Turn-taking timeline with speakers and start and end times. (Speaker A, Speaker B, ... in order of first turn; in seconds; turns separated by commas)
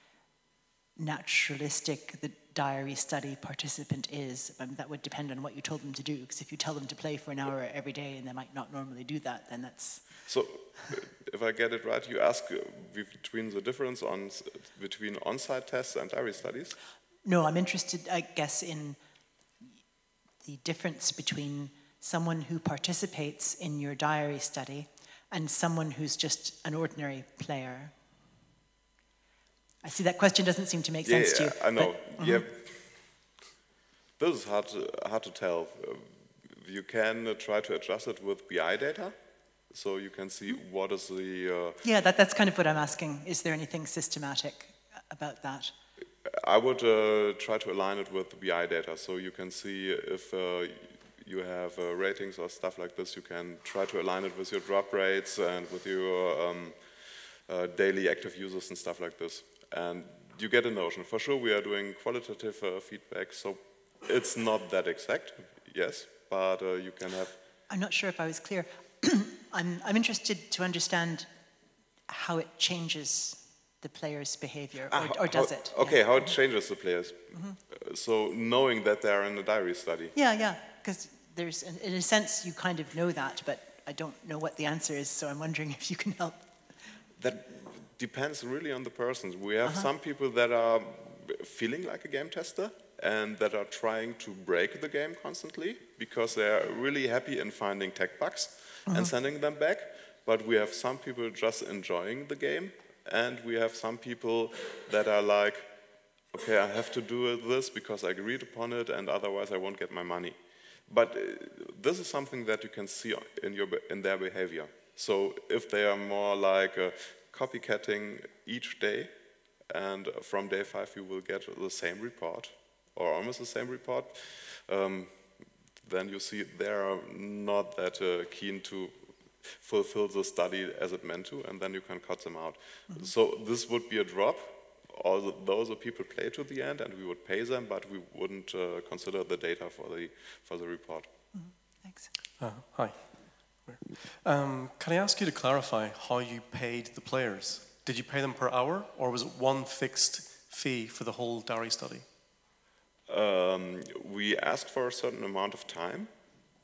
Speaker A: 0.9-10.1, Speaker B: 10.3-16.7, Speaker A: 17.2-19.0, Speaker A: 20.4-27.9, Speaker A: 29.8-32.5, Speaker B: 31.0-32.9, Speaker B: 34.2-39.1, Speaker B: 39.7-41.8, Speaker A: 41.8-45.7, Speaker B: 46.2-56.8, Speaker B: 57.5-67.3, Speaker A: 67.7-71.3, Speaker A: 72.1-76.3, Speaker B: 74.9-80.1, Speaker A: 77.3-77.6, Speaker A: 80.1-86.5, Speaker B: 87.2-105.7, Speaker A: 89.6-89.9, Speaker B: 106.3-110.3, Speaker B: 110.9-119.1, Speaker B: 119.7-125.3, Speaker B: 125.8-141.1, Speaker A: 141.3-142.1, Speaker C: 142.4-152.1, Speaker B: 153.1-156.1